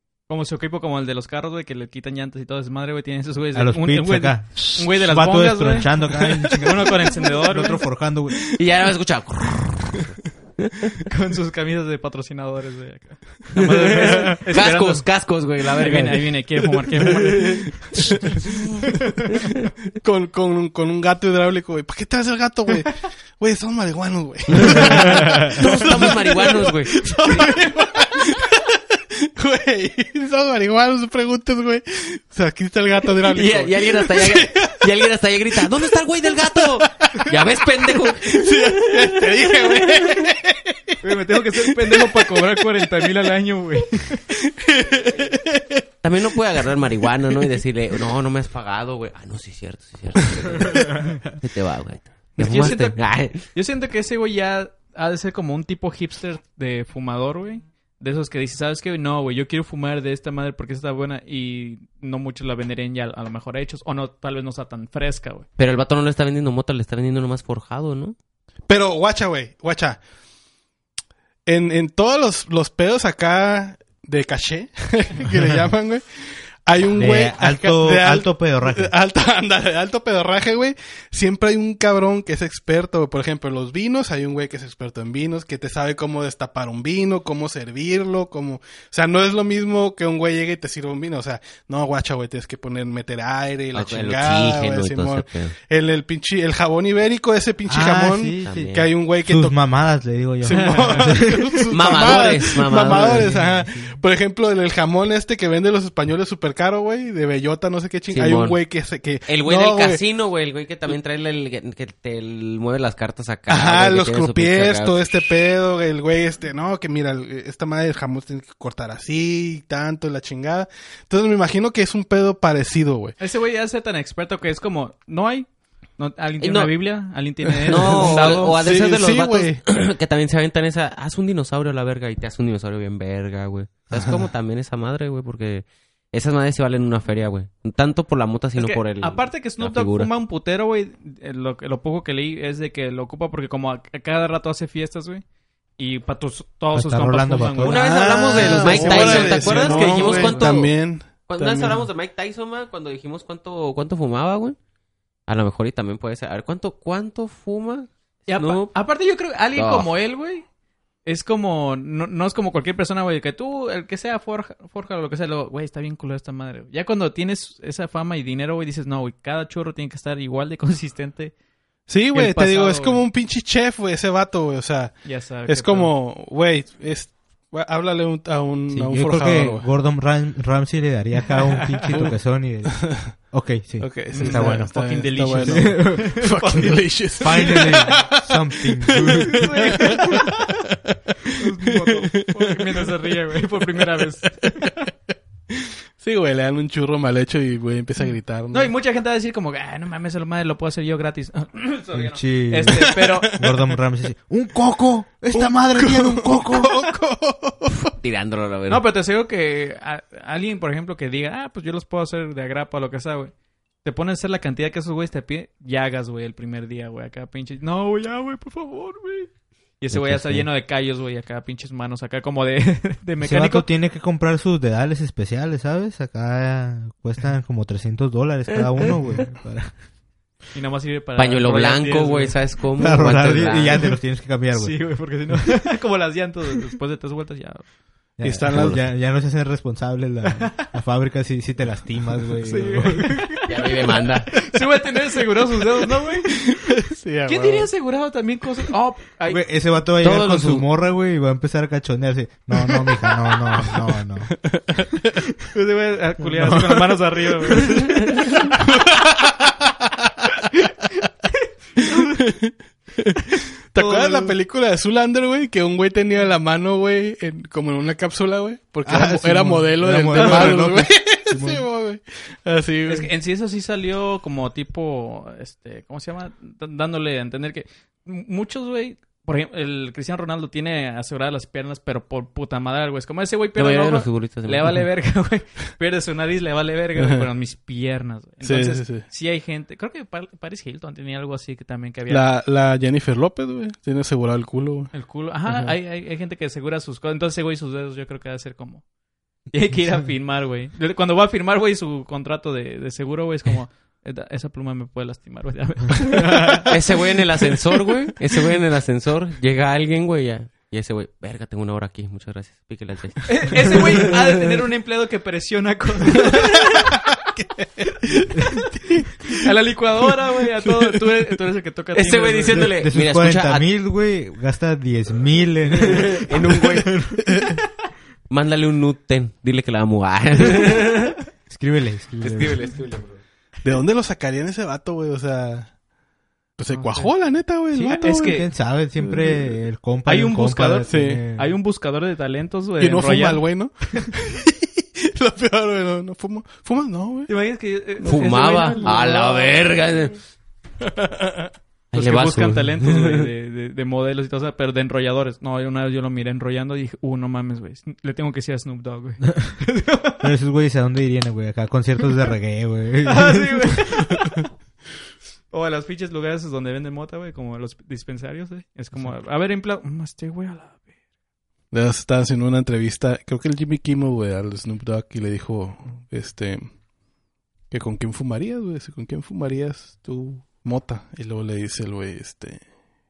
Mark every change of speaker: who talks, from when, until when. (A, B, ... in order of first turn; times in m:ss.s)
0:00.3-0:07.8 A
0:03.5-0:08.5 B
0:08.6-0:10.9 C
0:11.1-0:15.1 A
0:13.6-0:16.4 C
0:15.8-0:18.2 A
0:17.2-0:17.6 C
0:17.3-0:18.6 D
0:20.0-0:34.9 D
0:24.5-0:27.5 C
0:33.3-0:40.3 C
0:35.6-0:35.9 D
0:36.5-0:41.0 D
0:41.0-0:44.2 A
0:41.6-0:42.7 D
0:44.3-0:45.8 D
0:46.0-0:53.4 C
0:50.4-0:50.9 D
0:52.4-1:05.4 A
1:05.6-1:08.2 C
1:08.7-1:10.0 D
1:11.5-1:39.6 D
1:17.0-1:18.9 B
1:33.7-1:35.6 C
1:37.7-1:44.0 B
1:38.4-1:38.9 C
1:40.4-1:50.0 D
1:40.5-1:41.2 A
1:41.7-1:43.3 C
1:48.1-1:48.6 C
1:49.3-1:55.0 C
1:53.5-2:03.2 D
2:03.2-2:08.6 A
2:06.4-2:06.7 C
2:07.6-2:09.6 D
2:07.7-2:20.1 C
2:13.9-2:14.3 D
2:18.6-2:25.2 A
2:25.8-2:30.6 A
2:26.7-2:28.8 B
2:27.6-2:34.6 C
2:27.7-2:31.8 D
2:35.3-2:38.7 C
2:38.3-2:40.4 A
2:39.6-2:39.9 C
2:41.1-2:51.3 A
2:51.9-2:59.7 D
2:52.1-2:53.1 A
2:55.0-2:55.9 A
2:58.7-3:04.7 B
3:01.9-3:03.1 D
3:03.8-3:10.5 D
3:04.1-3:06.8 A
3:05.4-3:06.2 B
3:07.2-3:10.2 B
3:07.3-3:07.6 A
3:09.3-3:10.5 A
3:11.4-3:14.8 A
3:11.8-3:12.9 D
3:15.5-3:18.7 D
3:18.0-3:23.4 A
3:21.9-3:26.9 B
3:22.7-3:23.6 D
3:25.3-3:27.9 D
3:28.0-3:28.8 C
3:28.7-3:33.3 A
3:33.8-3:43.7 A
3:39.9-3:40.5 B
3:43.2-3:49.7 B
3:50.5-3:52.4 A
3:51.2-3:53.9 C
3:52.8-3:55.0 B
3:54.5-3:57.7 A
3:58.2-4:03.3 B
3:58.2-3:58.8 D
3:58.5-3:58.8 C
4:02.4-4:06.5 A
4:03.5-4:04.4 C
4:06.4-4:07.7 D
4:07.3-4:09.4 A
4:09.3-4:14.4 B
4:10.0-4:10.6 C
4:14.5-4:15.0 D
4:15.5-4:18.5 A
4:16.2-4:17.0 B
4:18.6-4:19.5 D
4:21.9-4:22.2 A
4:22.0-4:33.1 D
4:23.8-4:24.4 A
4:28.8-4:31.6 B
4:30.1-4:30.7 A
4:32.9-4:52.3 A
4:43.6-4:44.9 C
4:47.0-4:47.3 D
4:48.4-4:49.1 D
4:52.1-4:54.9 D
4:54.9-4:58.8 A
4:59.5-5:06.9 A
5:06.7-5:14.3 C
5:13.3-5:17.0 A
5:16.8-5:19.4 D
5:18.1-5:18.6 A
5:19.3-5:22.7 A
5:20.7-5:21.2 D
5:21.9-5:23.7 C
5:22.5-5:27.5 B
5:25.8-5:26.9 C
5:28.3-5:31.2 C
5:31.5-5:32.6 B
5:32.2-5:33.2 C
5:33.6-5:35.7 D
5:36.6-5:38.4 D
5:36.7-5:37.1 A
5:37.7-5:38.5 A
5:38.0-5:41.6 B
5:39.0-5:39.6 D
5:40.0-5:43.4 A
5:40.9-5:41.2 D
5:42.8-5:47.3 D
5:47.3-5:49.6 A
5:48.0-5:50.2 C
5:51.9-5:53.3 C
5:51.9-6:00.3 A
6:00.2-6:03.9 B
6:03.0-6:04.5 A
6:05.5-6:10.8 A
6:11.7-6:16.8 D
6:17.7-6:22.7 D